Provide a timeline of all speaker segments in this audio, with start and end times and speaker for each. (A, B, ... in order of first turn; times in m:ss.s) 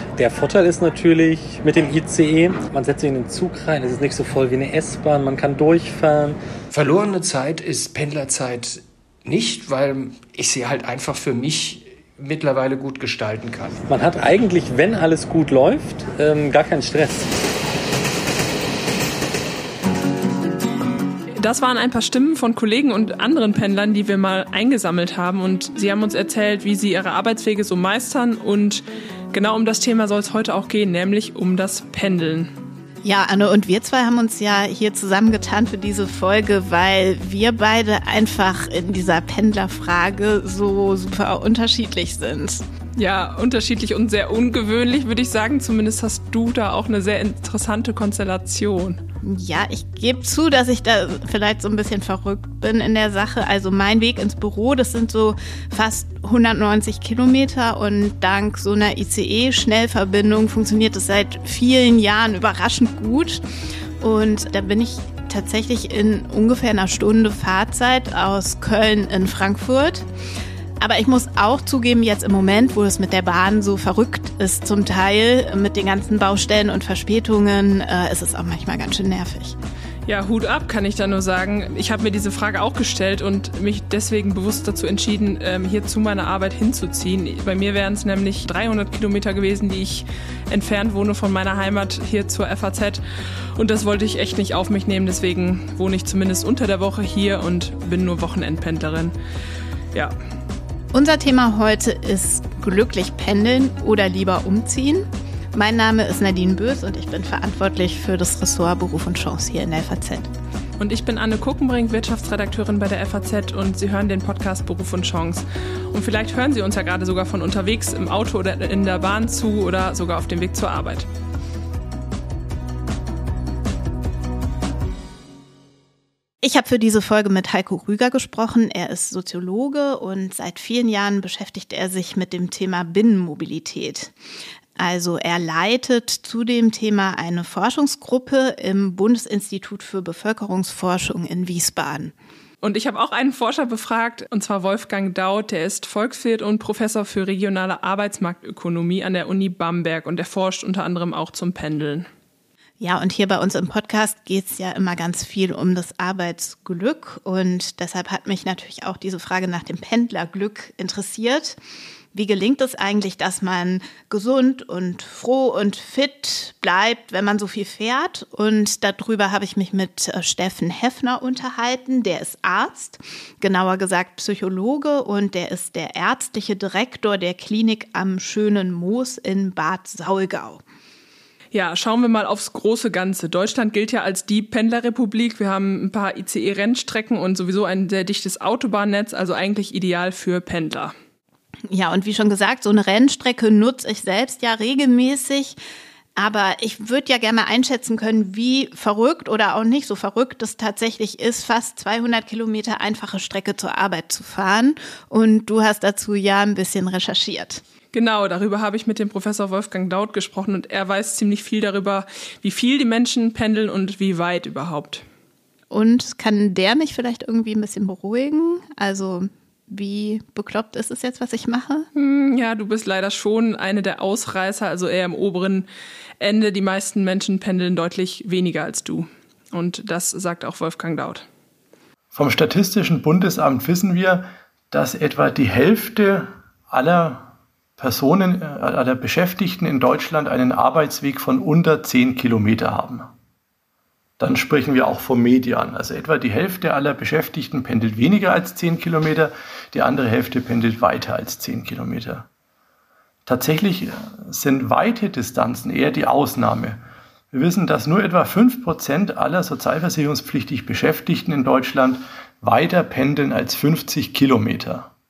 0:00.2-0:06.4 A
0:06.7-0:13.8 B
0:13.9-0:17.3 A
0:21.4-0:32.5 C
0:33.0-0:42.6 D
0:43.0-0:49.0 C
0:49.2-1:03.4 D
1:04.0-1:10.1 D
1:10.8-1:19.6 D
1:20.1-1:33.0 C
1:33.6-1:39.2 C
1:40.9-1:50.3 D
1:50.8-2:01.1 C
2:06.4-2:14.1 D
2:14.8-2:22.1 D
2:22.6-2:32.1 C
2:32.8-2:41.6 D
2:42.1-3:00.6 D
3:01.5-3:10.9 C
3:11.7-3:15.6 D
3:16.2-3:27.6 D
3:27.9-3:35.0 C
3:35.7-3:41.9 D
3:42.0-3:45.7 C
3:46.2-3:51.2 C
3:52.1-4:03.1 E
4:04.2-4:12.3 E
4:13.3-4:16.8 E
4:17.3-4:24.9 E